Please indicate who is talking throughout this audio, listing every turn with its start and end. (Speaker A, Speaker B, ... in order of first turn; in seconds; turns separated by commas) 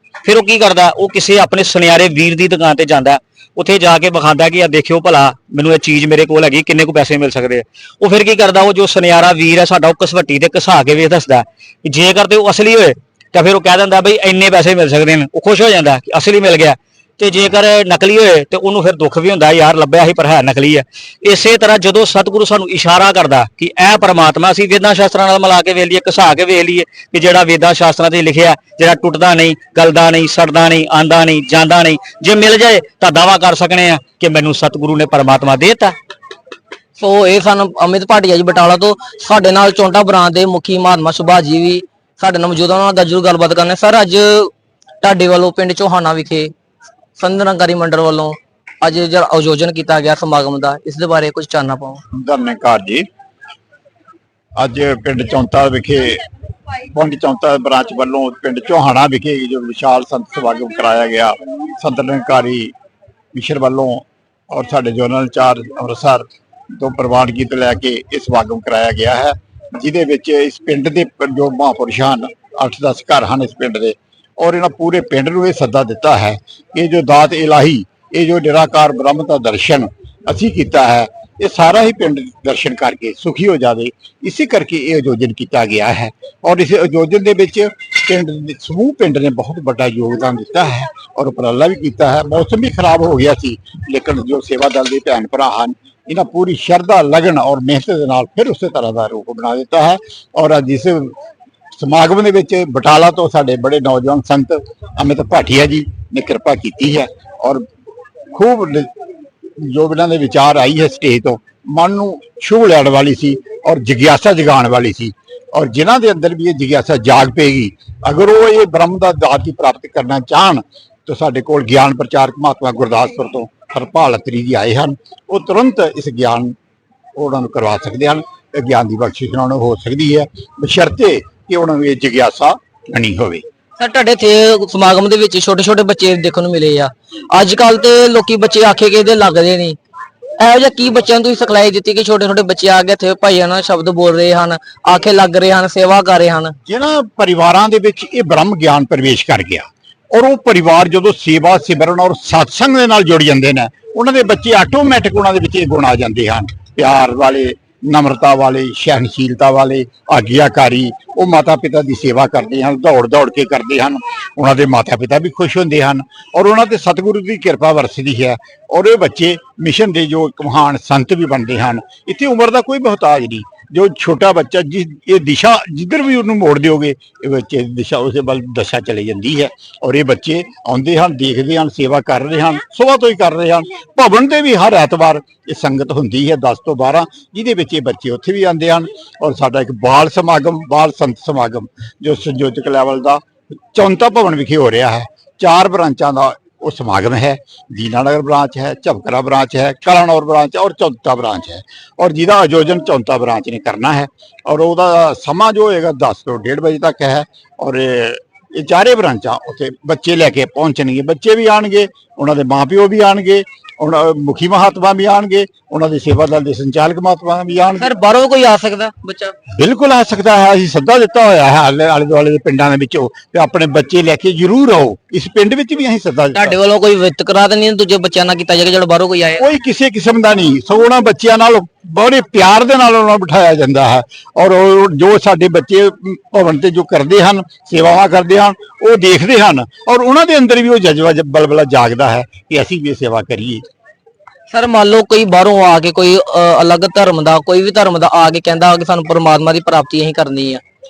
Speaker A: 0.2-35.9, Speaker B: 37.0-46.5, Speaker B: 47.2-52.0, Speaker C: 52.1-53.1, Speaker C: 54.6-56.2, Speaker C: 56.9-62.7, Speaker C: 63.3-66.3, Speaker C: 66.8-101.2, Speaker C: 101.8-107.6, Speaker C: 108.3-108.9, Speaker C: 109.6-126.5, Speaker C: 127.2-133.4, Speaker B: 133.8-139.8, Speaker B: 140.4-146.6, Speaker C: 146.7-217.9, Speaker B: 217.8-219.4, Speaker C: 219.6-226.6, Speaker B: 226.3-229.4, Speaker C: 229.4-243.7, Speaker B: 244.5-250.6